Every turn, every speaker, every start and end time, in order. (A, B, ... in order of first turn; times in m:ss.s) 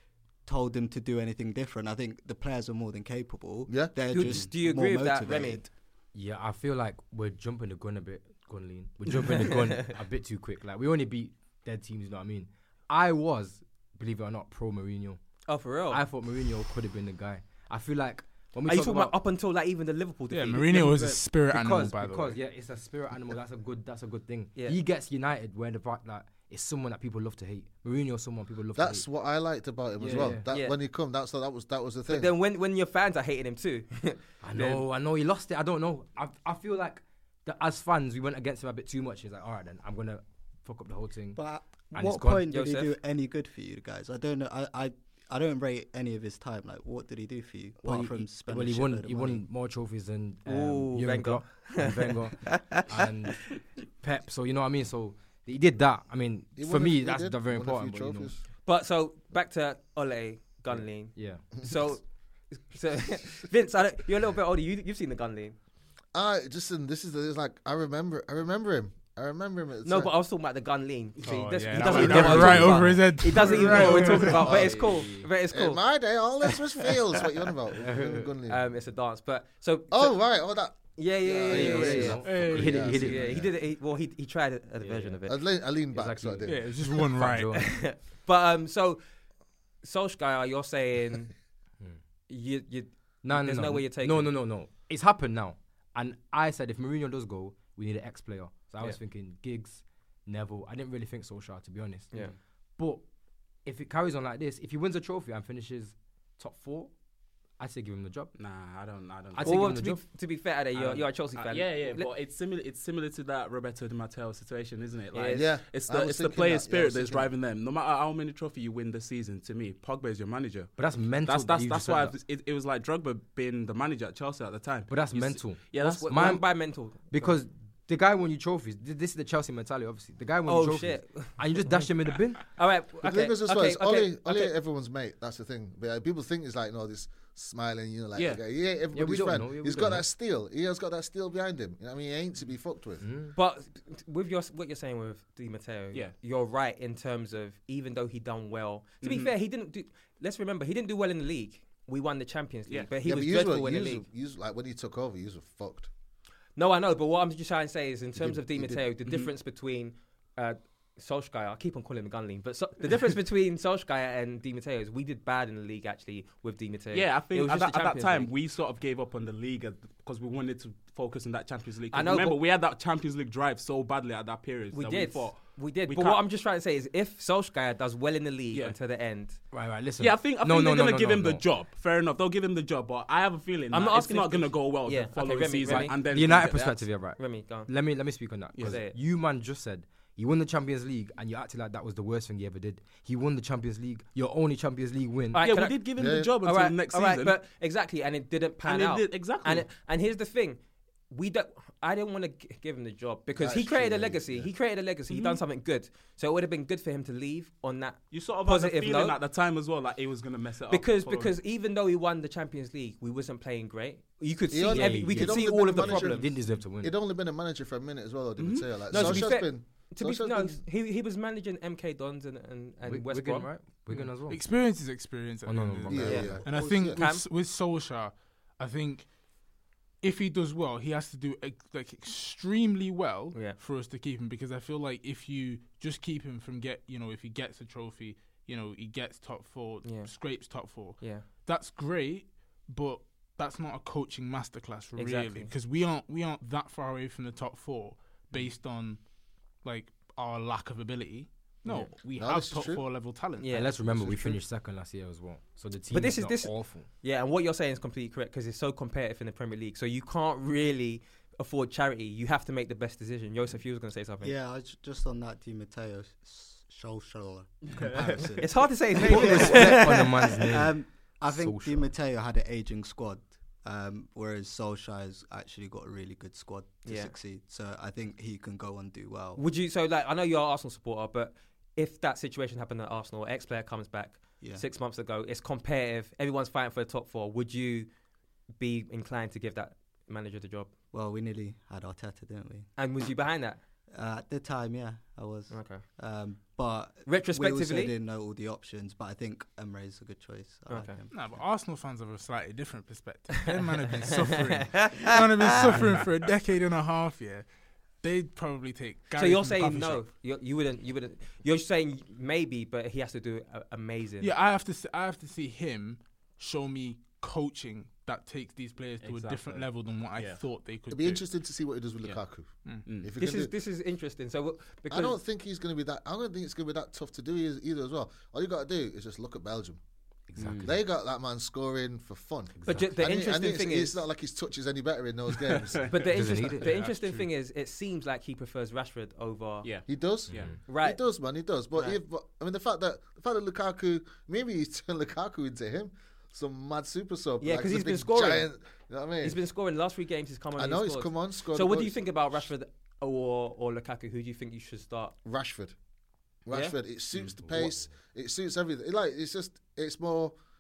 0:00.5-0:05.7 A
0:03.7-0:04.0 B
0:04.1-0:05.6 C
0:06.1-0:15.2 D
0:09.3-0:09.8 C
0:15.5-0:16.0 C
0:15.9-0:19.1 D
0:18.7-0:21.0 C
0:20.3-0:22.4 E
0:20.7-0:29.1 D
0:28.8-0:32.3 B
0:30.0-0:30.5 D
0:30.5-0:30.8 C
0:32.1-0:34.8 C
0:34.4-0:41.4 D
0:41.4-0:49.5 A
0:41.9-0:42.5 D
0:42.5-0:42.9 C
0:47.8-0:53.4 D
0:50.5-0:52.6 C
0:54.0-0:58.3 D
0:56.6-0:58.4 B
0:58.7-1:05.6 C
1:01.1-1:01.4 D
1:06.1-1:10.1 B
1:09.8-1:15.8 C
1:11.2-1:12.6 F
1:11.2-1:14.6 E
1:11.9-1:15.3 D
1:14.4-1:15.0 B
1:15.5-1:18.6 B
1:17.8-1:18.3 D
1:18.5-1:20.2 C
1:19.9-1:23.5 B
1:21.0-1:25.4 C
1:21.5-1:23.4 D
1:22.2-1:23.0 E
1:24.8-1:25.2 D
1:25.3-1:26.8 B
1:25.9-1:27.7 D
1:26.4-1:27.6 E
1:27.5-1:29.0 C
1:29.8-1:31.3 C
1:32.3-1:34.3 C
1:33.2-1:42.3 D
1:42.8-1:43.0 D
1:43.6-1:46.9 D
1:47.6-1:48.4 D
1:48.4-1:49.8 F
1:49.3-1:50.0 D
1:49.4-1:52.1 C
1:50.8-2:06.4 F
1:55.1-1:55.5 C
1:55.3-1:57.3 B
2:00.8-2:02.2 D
2:04.9-2:12.4 D
2:05.8-2:07.4 C
2:10.5-2:14.5 C
2:13.0-2:23.0 B
2:18.2-2:18.4 F
2:18.9-2:20.1 D
2:23.0-2:23.4 D
2:23.4-2:34.0 C
2:29.0-2:29.3 F
2:33.0-2:35.9 B
2:36.6-2:48.3 C
2:38.2-2:38.9 B
2:39.1-2:39.3 F
2:46.9-2:56.2 F
2:51.9-2:52.4 C
2:54.7-2:59.4 C
2:59.5-3:01.4 D
3:00.0-3:06.9 F
3:03.7-3:06.0 C
3:05.7-3:15.4 D
3:07.2-3:07.7 C
3:08.6-3:08.8 F
3:08.6-3:09.0 C
3:15.3-3:15.8 C
3:15.4-3:17.4 F
3:16.0-3:16.3 B
3:16.4-3:20.6 C
3:18.6-3:19.7 F
3:21.1-3:29.2 C
3:23.4-3:24.5 B
3:25.1-3:25.4 F
3:28.1-3:31.4 F
3:30.7-3:36.3 C
3:34.5-3:40.6 B
3:34.7-3:37.0 D
3:38.4-3:39.2 F
3:38.9-3:43.5 C
3:42.9-3:44.8 D
3:44.2-3:49.1 E
3:45.4-3:46.4 D
3:45.9-3:47.0 B
3:46.1-3:47.3 C
3:50.0-4:09.0 E
3:53.3-3:53.6 C
3:59.8-4:00.1 C
4:01.0-4:01.2 C
4:05.0-4:05.5 C
4:09.6-4:13.7 E
4:11.7-4:11.9 C
4:12.2-4:12.8 B
4:13.4-4:13.7 C
4:13.5-4:16.9 D
4:15.9-4:24.4 C
4:24.2-4:39.4 A
4:27.6-4:28.7 F
4:28.4-4:30.3 C
4:29.0-4:30.8 D
4:31.3-4:31.9 D
4:36.8-4:37.1 C
4:39.4-4:47.9 C
4:48.6-4:50.7 C
4:50.9-4:52.7 A
4:52.8-4:53.6 C
4:53.9-5:01.1 A
4:55.5-4:55.8 C
4:57.1-4:58.0 C
5:00.7-5:01.0 C
5:01.1-5:07.5 E
5:03.4-5:05.9 C
5:05.8-5:06.0 F
5:08.0-5:10.1 E
5:09.1-5:14.3 C
5:14.2-5:21.2 E
5:19.0-5:20.4 F
5:20.9-5:23.5 B
5:22.9-5:23.1 F
5:23.2-5:25.2 C
5:24.9-5:29.8 B
5:30.3-5:30.7 D
5:30.4-5:30.7 F
5:30.6-5:36.0 B
5:32.6-5:32.9 D
5:32.7-5:34.0 C
5:35.4-5:36.2 F
5:35.9-5:39.7 C
5:36.1-5:36.7 D
5:36.4-5:37.2 E
5:39.6-5:40.6 F
5:39.9-5:49.4 B
5:40.7-5:41.0 C
5:47.4-5:48.5 C
5:49.2-5:55.1 C
5:50.6-5:52.1 B
5:55.2-5:55.8 B
5:56.5-6:00.4 B
5:56.5-5:56.8 C
5:57.4-5:57.8 D